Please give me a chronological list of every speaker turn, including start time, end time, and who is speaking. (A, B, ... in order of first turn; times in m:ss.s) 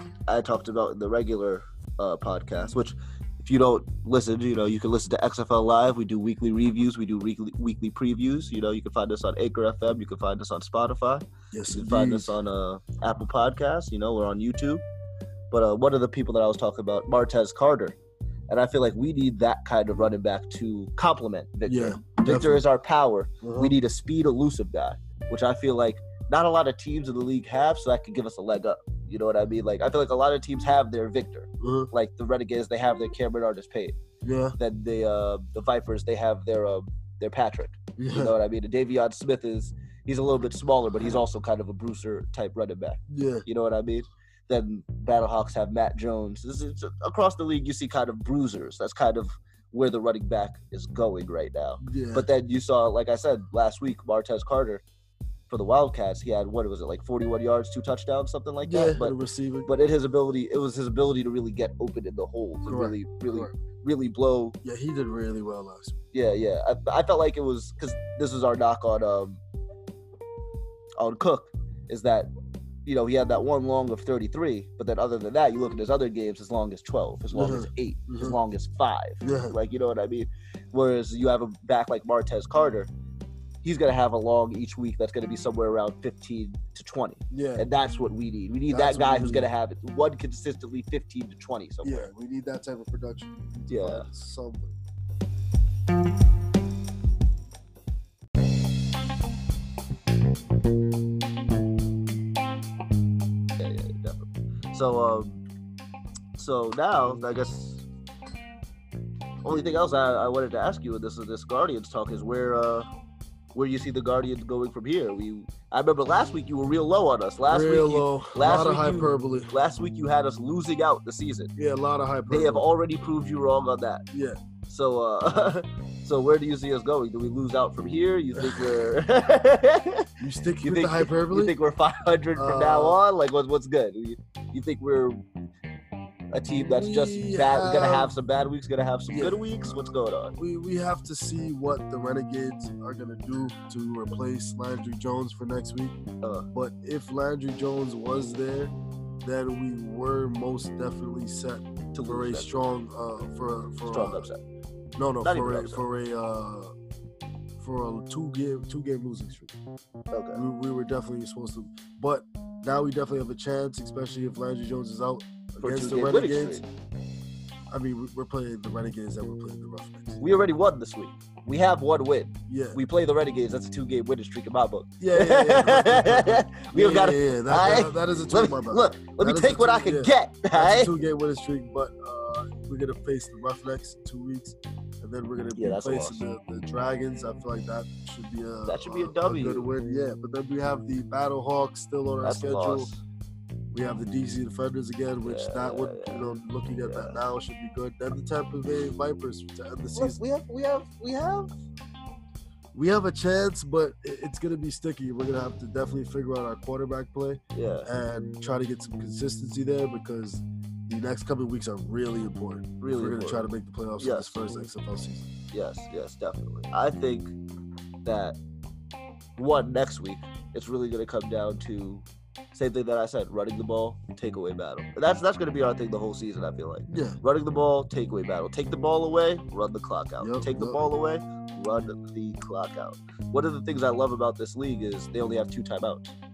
0:00.3-0:14.8 A
0:11.5-0:12.4 B
0:15.5-0:18.0 A
0:18.5-0:34.0 A
0:21.6-0:22.6 B
0:23.4-0:23.8 B
0:31.6-0:31.9 B
0:34.2-0:34.6 B
0:34.6-0:54.8 A
0:38.0-0:38.4 B
0:43.1-0:43.4 B
0:51.8-0:52.3 B
0:55.5-1:04.5 A
0:58.6-0:59.7 B
1:02.6-1:03.5 B
1:04.6-1:06.0 B
1:06.1-1:09.4 A
1:11.0-1:12.3 A
1:12.8-1:22.9 A
1:17.3-1:18.4 B
1:19.2-1:19.6 B
1:23.6-1:32.1 A
1:27.3-1:27.6 B
1:28.7-1:29.5 B
1:31.8-1:34.7 B
1:33.7-1:34.0 A
1:43.6-1:45.4 A
1:46.4-1:47.8 A
1:49.4-1:52.9 A
1:53.5-2:01.5 A
1:57.5-1:59.6 B
2:01.6-2:02.7 B
2:02.3-2:04.0 A
2:04.1-2:04.4 B
2:04.7-2:10.1 A
2:08.3-2:08.7 B
2:10.2-2:11.6 B
2:10.6-2:15.2 A
2:12.3-2:13.0 B
2:16.3-2:20.3 A
2:16.7-2:18.1 B
2:19.1-2:26.0 B
2:26.5-2:34.3 B
2:31.9-2:32.5 A
2:33.9-2:34.4 A
2:35.0-2:36.7 B
2:35.2-2:35.8 A
2:37.6-2:39.5 B
2:40.1-2:40.4 A
2:40.3-2:46.6 B
2:45.6-2:46.6 A
2:47.7-2:50.2 B
2:50.2-3:00.9 A
2:52.5-2:52.8 B
2:55.0-3:12.9 B
3:05.6-3:06.2 A
3:08.7-3:09.7 A
3:12.2-3:13.0 A
3:13.7-3:20.2 B
3:15.2-3:16.2 A
3:16.8-3:17.2 A
3:19.9-3:21.5 A
3:22.7-3:35.3 B
3:27.5-3:27.9 A
3:32.8-3:34.6 A
3:35.5-3:37.4 A
3:38.0-3:38.4 A
3:39.4-3:56.1 A
3:46.9-3:47.2 B
3:50.2-3:50.9 B